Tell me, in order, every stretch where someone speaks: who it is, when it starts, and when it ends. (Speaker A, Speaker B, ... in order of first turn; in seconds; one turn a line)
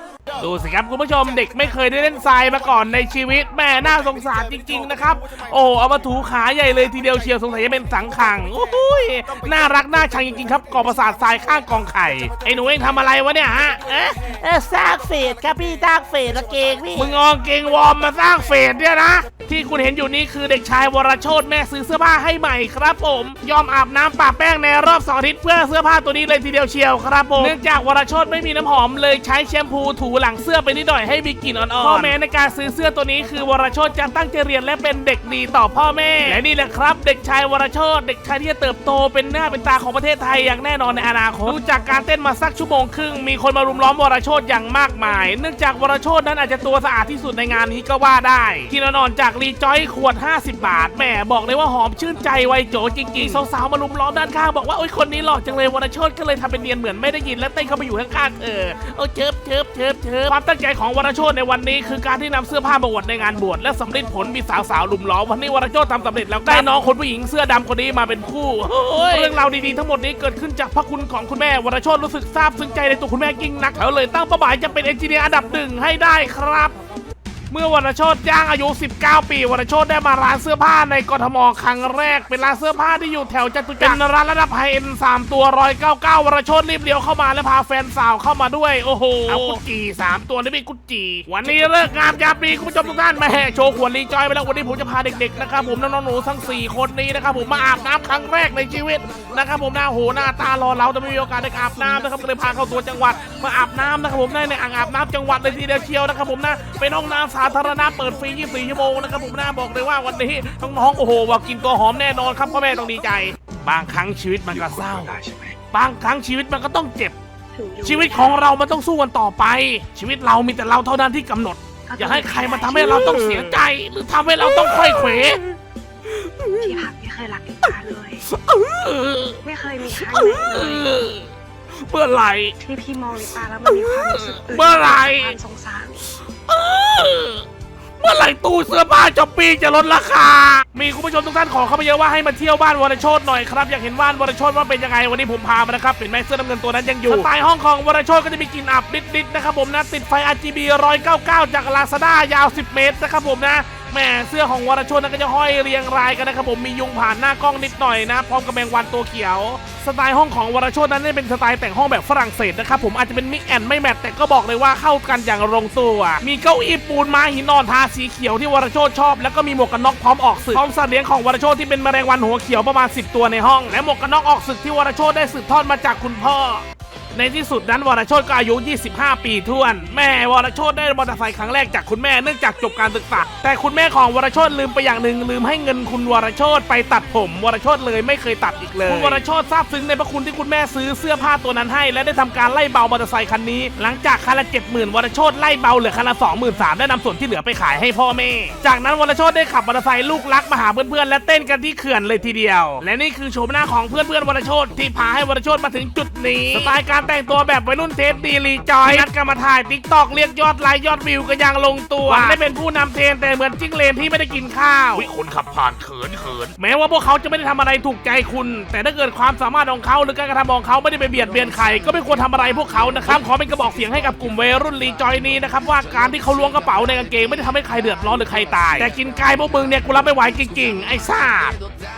Speaker A: 0.4-14.3
Speaker B: 14.2-17.1
Speaker A: 16.9-76.7
Speaker C: 31.8-32.1
Speaker C: 53.1-53.4
Speaker C: 68.9-69.4
Speaker A: 77.5-115.2
Speaker C: 89.3-89.7
Speaker A: 115.7-117.1
Speaker D: 117.5-118.4
Speaker A: 117.8-125.4
Speaker D: 121.9-123.3
Speaker D: 126.6-128.3
Speaker A: 128.3-129.4
Speaker D: 129.4-131.1
Speaker A: 130.0-132.5
Speaker D: 132.6-136.0
Speaker A: 133.7-135.4
Speaker A: 136.2-137.4
Speaker A: 138.0-215.1
Speaker C: 188.7-189.2
Speaker C: 212.0-212.4
Speaker C: 215.0-216.4
Speaker A: 216.1-231.6